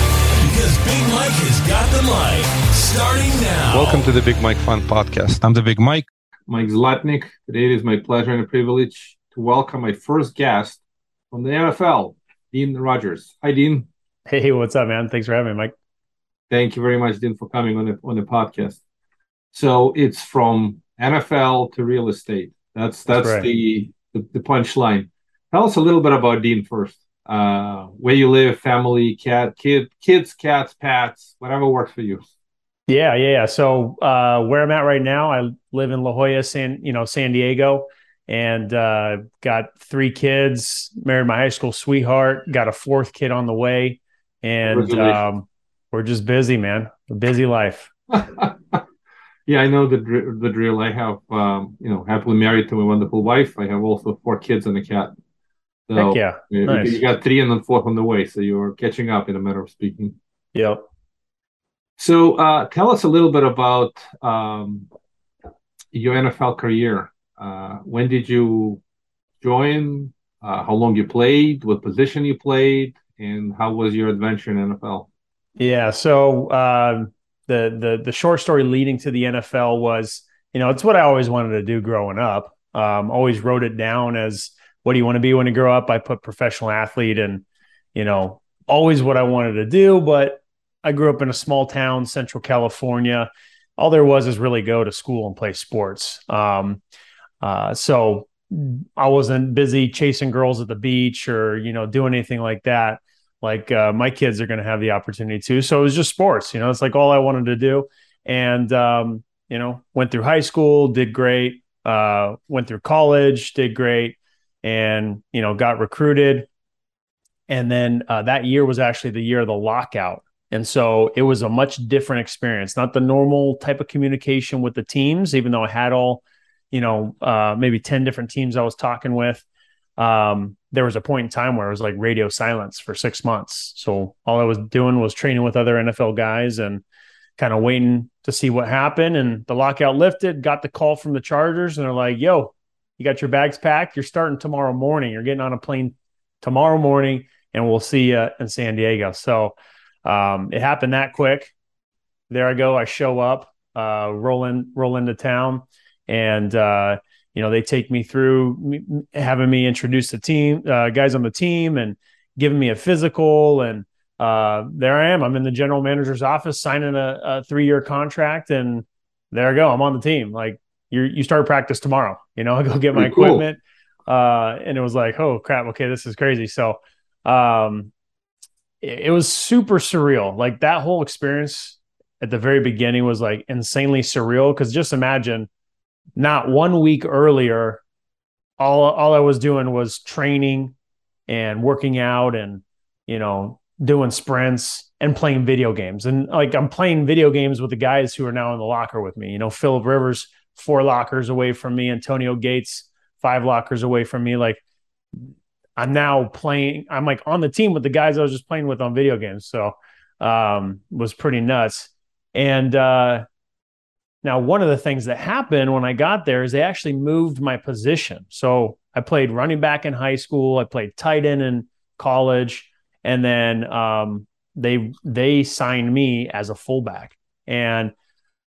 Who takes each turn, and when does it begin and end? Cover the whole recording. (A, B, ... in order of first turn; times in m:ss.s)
0:00.4-0:04.1 A
0:03.7-0:06.0 B
0:06.5-0:13.9 C
0:14.3-0:15.7 D
0:16.5-0:18.8 C
0:19.5-0:32.2 C
0:23.1-0:23.5 D
0:32.9-0:47.9 D
0:44.6-0:45.2 C
0:48.1-0:48.8 C
0:49.5-0:55.1 C
0:55.9-1:00.1 C
0:55.9-0:57.0 D
1:00.5-1:00.8 D
1:02.0-1:04.9 C
1:05.9-1:08.8 C
1:09.4-1:15.1 C
1:15.6-1:27.4 D
1:27.9-1:36.8 D
1:37.4-1:56.5 D
1:57.5-2:09.4 D
2:10.0-2:16.8 D
2:17.4-2:31.5 D
2:32.3-2:57.9 D
2:52.9-2:53.4 C
2:58.8-3:05.5 D
3:06.2-3:07.8 D
3:08.6-3:10.7 D
3:11.3-3:24.6 D
3:25.2-3:33.2 D
3:34.2-3:47.9 D